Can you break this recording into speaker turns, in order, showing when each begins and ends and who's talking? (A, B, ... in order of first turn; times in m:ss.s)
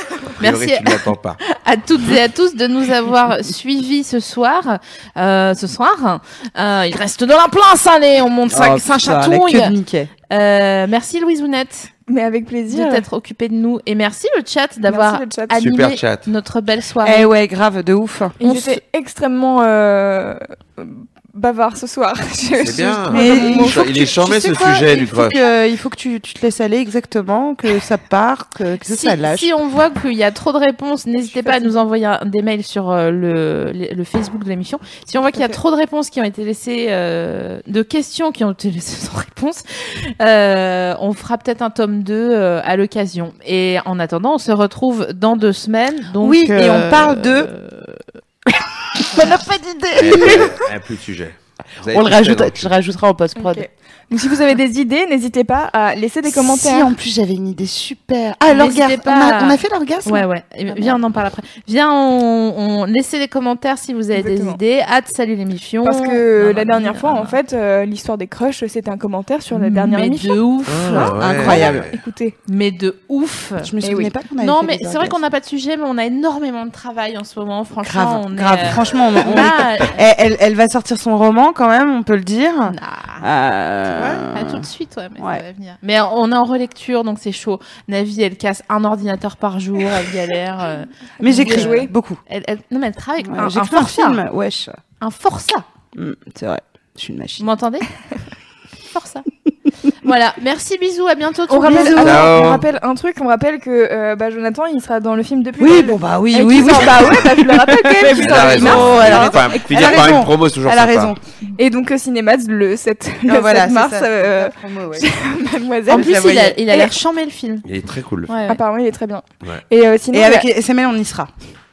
0:00.4-0:09.7 A
0:00.4-0:01.4 B
0:08.5-0:10.1 C
0:10.3-0:11.9 A
0:12.1-0:13.1 D
0:12.7-0:17.3 A
0:14.9-0:15.6 D
0:15.6-0:16.3 B
0:17.0-0:18.8 C
0:18.4-0:23.8 D
0:22.6-0:25.4 B
0:23.1-0:29.5 C
0:28.8-0:48.0 A
0:31.2-0:31.7 C
0:46.2-0:47.5 C
0:48.5-0:50.6 C
0:50.0-0:52.7 B
0:51.9-0:53.7 C
0:53.4-0:56.9 D
0:56.2-1:00.3 C
0:58.5-1:07.4 A
1:04.2-1:04.6 D
1:05.8-1:10.4 D
1:09.5-1:11.1 A
1:10.7-1:12.0 B
1:10.9-1:12.4 D
1:11.2-1:11.9 C
1:12.5-1:13.7 A
1:13.6-1:15.2 C
1:13.8-1:14.1 D
1:14.4-1:20.1 A
1:17.8-1:25.4 C
1:22.7-1:23.3 A
1:24.0-1:34.2 A
1:31.2-1:32.2 C
1:31.4-1:31.9 D
1:33.2-1:34.8 C
1:35.0-1:35.7 A
1:35.9-1:37.4 C
1:37.4-1:37.9 A
1:38.9-1:39.3 A
1:40.0-1:42.3 A
1:41.5-1:50.2 D
1:41.6-1:42.3 C
1:41.9-1:42.7 B
1:45.6-1:51.2 C
1:46.7-1:47.3 B
1:48.1-1:51.1 B
1:51.6-1:57.0 D
1:53.2-1:55.2 C
1:55.9-1:57.6 A
1:55.9-1:56.6 C
1:57.6-1:58.3 B
1:58.3-1:58.6 A
1:58.5-2:00.5 D
2:00.1-2:01.3 C